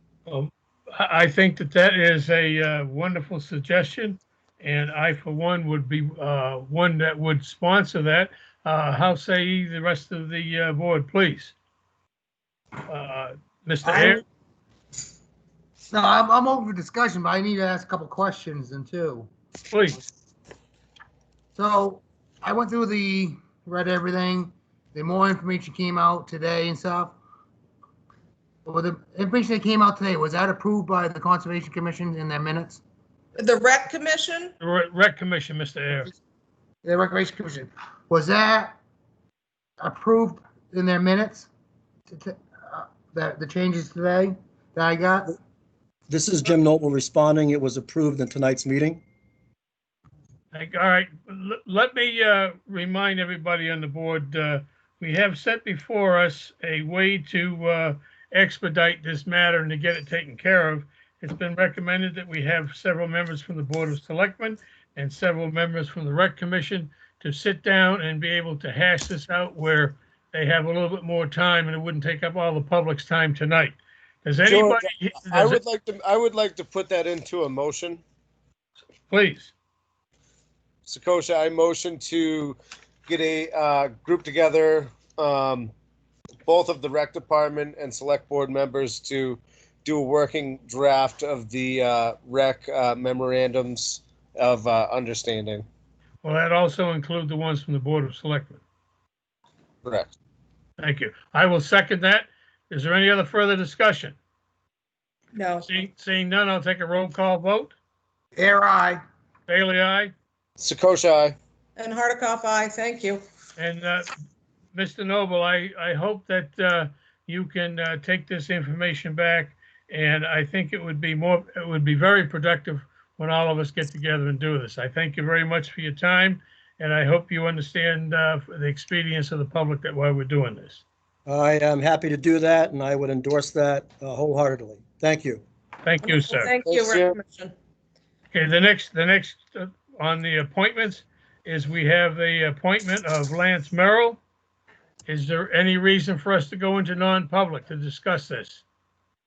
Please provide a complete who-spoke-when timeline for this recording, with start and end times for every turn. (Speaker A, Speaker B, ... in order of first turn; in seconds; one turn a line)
Speaker A: 0.3-11.5
Speaker A: 12.9-14.2
Speaker B: 13.8-14.2
Speaker B: 15.9-19.3
Speaker A: 19.7-20.0
Speaker B: 21.6-27.1
Speaker B: 28.6-32.8
Speaker C: 33.4-34.5
Speaker A: 34.6-36.1
Speaker B: 36.8-38.8
Speaker B: 39.8-41.5
Speaker B: 42.1-45.3
Speaker D: 46.1-49.0
Speaker A: 50.5-75.6
Speaker E: 74.4-78.0
Speaker A: 79.1-79.5
Speaker E: 80.9-85.7
Speaker E: 86.5-95.7
Speaker A: 96.2-98.6
Speaker E: 99.8-100.1
Speaker A: 100.8-104.2
Speaker C: 105.3-105.7
Speaker A: 105.7-107.8
Speaker B: 108.4-109.0
Speaker A: 109.5-110.1
Speaker E: 110.6-111.4
Speaker C: 111.8-113.2
Speaker A: 113.6-114.1
Speaker A: 114.7-130.8
Speaker D: 131.2-135.4
Speaker A: 135.8-136.5
Speaker C: 136.0-137.5
Speaker E: 136.7-137.1
Speaker A: 138.3-144.2
Speaker A: 145.1-148.6